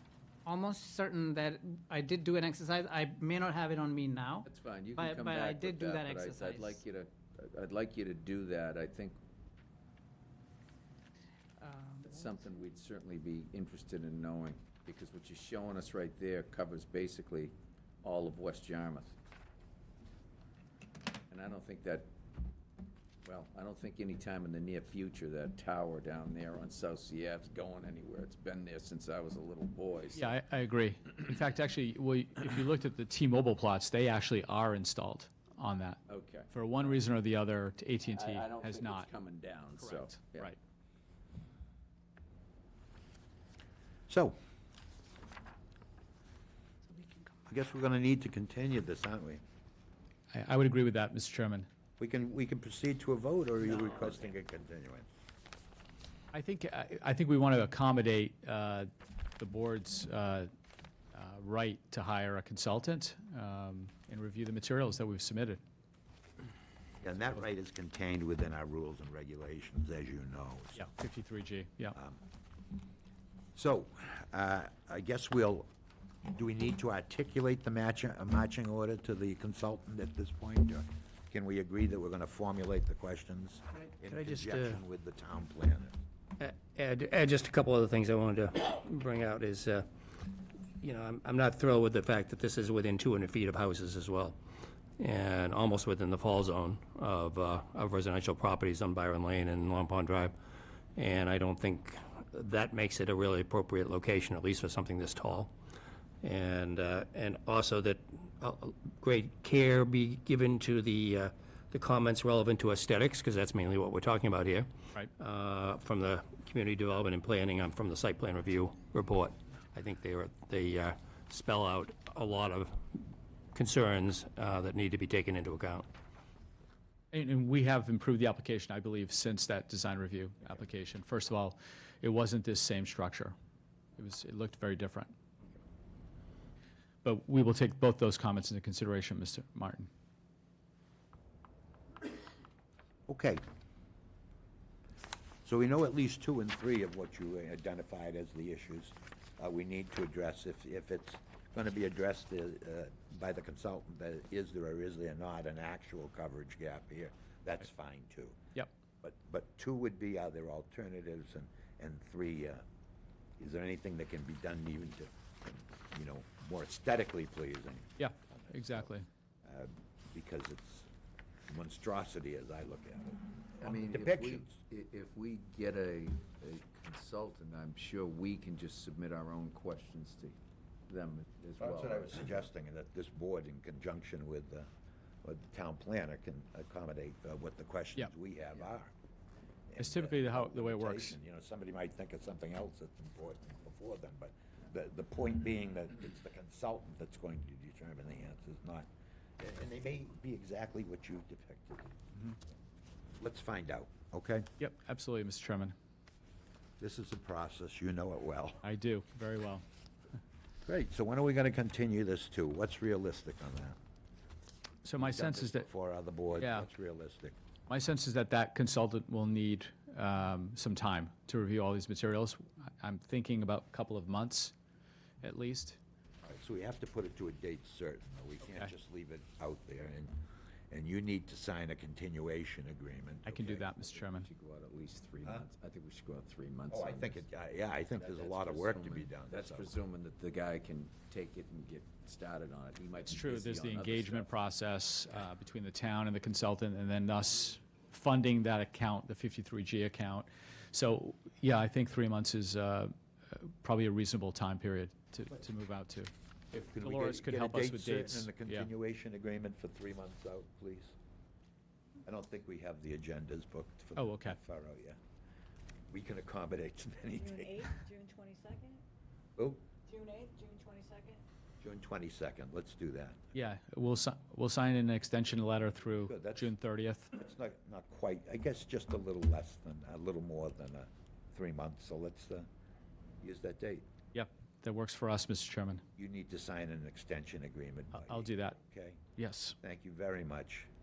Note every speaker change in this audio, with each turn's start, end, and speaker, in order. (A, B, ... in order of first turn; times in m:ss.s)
0:00.5-0:06.8 A
0:04.4-0:09.2 B
0:11.6-0:12.1 A
0:12.0-0:19.2 B
0:21.3-0:22.1 B
0:23.2-0:30.3 B
0:30.1-0:39.1 C
0:36.1-0:36.5 B
0:38.1-0:40.5 B
0:39.8-0:40.6 C
0:44.1-0:44.4 D
0:47.5-0:49.4 D
0:50.3-0:51.7 C
0:52.0-0:55.1 D
0:56.3-1:00.5 C
1:01.1-1:05.6 C
1:07.0-1:10.9 D
1:10.8-1:12.0 C
1:11.9-1:12.2 D
1:13.6-1:15.7 D
1:16.3-1:26.0 D
1:24.0-1:24.8 E
1:26.4-1:29.9 E
1:30.8-1:34.4 E
1:35.0-1:40.4 E
1:41.0-1:45.5 E
1:46.2-2:03.0 E
2:03.5-2:05.9 E
2:07.1-2:13.4 C
2:14.0-2:15.1 C
2:17.0-2:19.9 C
2:23.1-2:23.4 D
2:25.4-2:38.4 D
2:39.0-2:42.6 D
2:43.4-2:48.9 D
2:48.0-2:49.1 C
2:49.4-2:50.9 D
2:51.5-2:54.6 D
2:53.6-3:00.4 B
3:00.9-3:02.4 B
3:01.6-3:04.7 D
3:05.2-3:08.9 D
3:09.7-3:18.9 D
3:09.8-3:11.2 C
3:19.4-3:22.0 D
3:23.2-3:24.5 D
3:24.6-3:25.8 C
3:26.8-3:28.6 D
3:28.6-3:29.6 C
3:30.6-3:33.8 D
3:34.8-3:35.7 C
3:35.0-3:37.4 D
3:36.4-3:36.7 C
3:37.7-3:44.6 C
3:45.2-3:45.8 C
3:46.2-3:53.7 D
3:48.4-3:48.7 C
3:53.2-3:54.3 C
3:53.8-3:57.3 B
3:56.7-3:59.7 D
3:58.0-4:04.3 B
4:03.1-4:16.1 C
4:16.5-4:20.9 D
4:16.8-4:18.7 C
4:22.0-4:25.0 D
4:24.0-4:24.4 C
4:25.9-4:27.8 D
4:27.7-4:28.8 F
4:29.4-4:29.6 D
4:29.9-4:31.2 F
4:31.6-4:33.3 D
4:33.3-4:37.1 C
4:36.1-4:36.5 D
4:37.1-4:42.5 D
4:43.2-4:43.8 D
4:44.1-4:45.8 C
4:46.0-4:49.0 D
4:48.0-4:48.6 C
4:49.2-4:49.6 C
4:49.6-4:50.7 D